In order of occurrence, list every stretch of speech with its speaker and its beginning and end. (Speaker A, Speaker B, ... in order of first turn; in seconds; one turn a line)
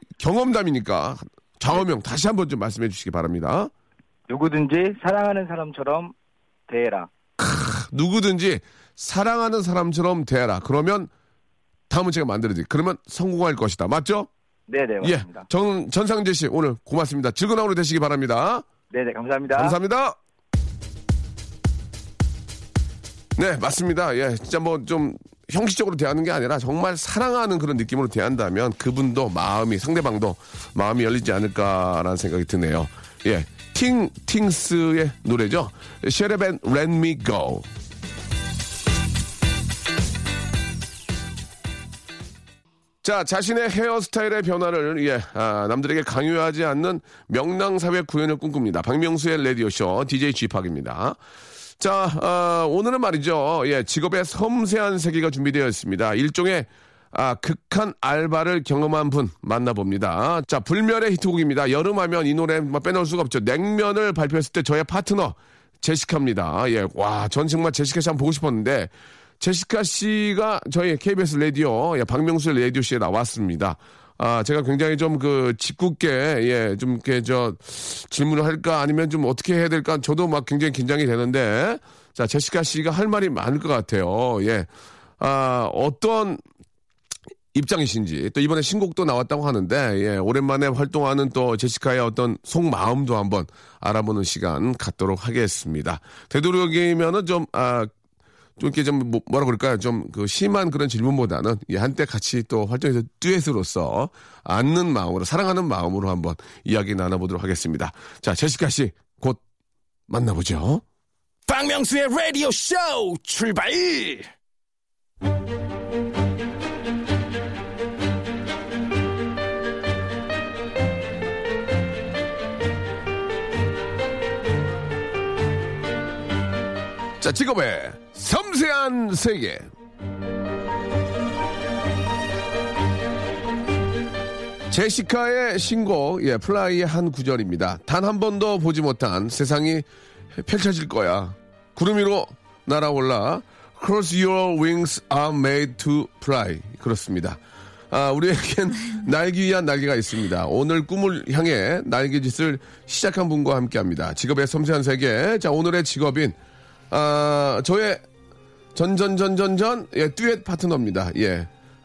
Speaker A: 0.2-3.7
Speaker B: 4.3-6.1
Speaker B: 6.7-7.1
Speaker A: 7.4-11.1
Speaker A: 11.9-14.3
Speaker B: 14.7-15.5
Speaker A: 15.0-18.6
Speaker B: 18.9-19.7
Speaker A: 19.5-20.2
Speaker A: 23.4-37.7
Speaker A: 43.0-51.2
Speaker A: 51.8-86.4
Speaker A: 87.5-97.9
Speaker A: 98.6-109.4
Speaker A: 110.1-110.8
Speaker C: 111.5-114.3
Speaker A: 127.2-129.7
Speaker A: 134.7-147.4
Speaker A: 147.9-156.3
Speaker A: 156.9-158.0
Speaker A: 158.7-161.5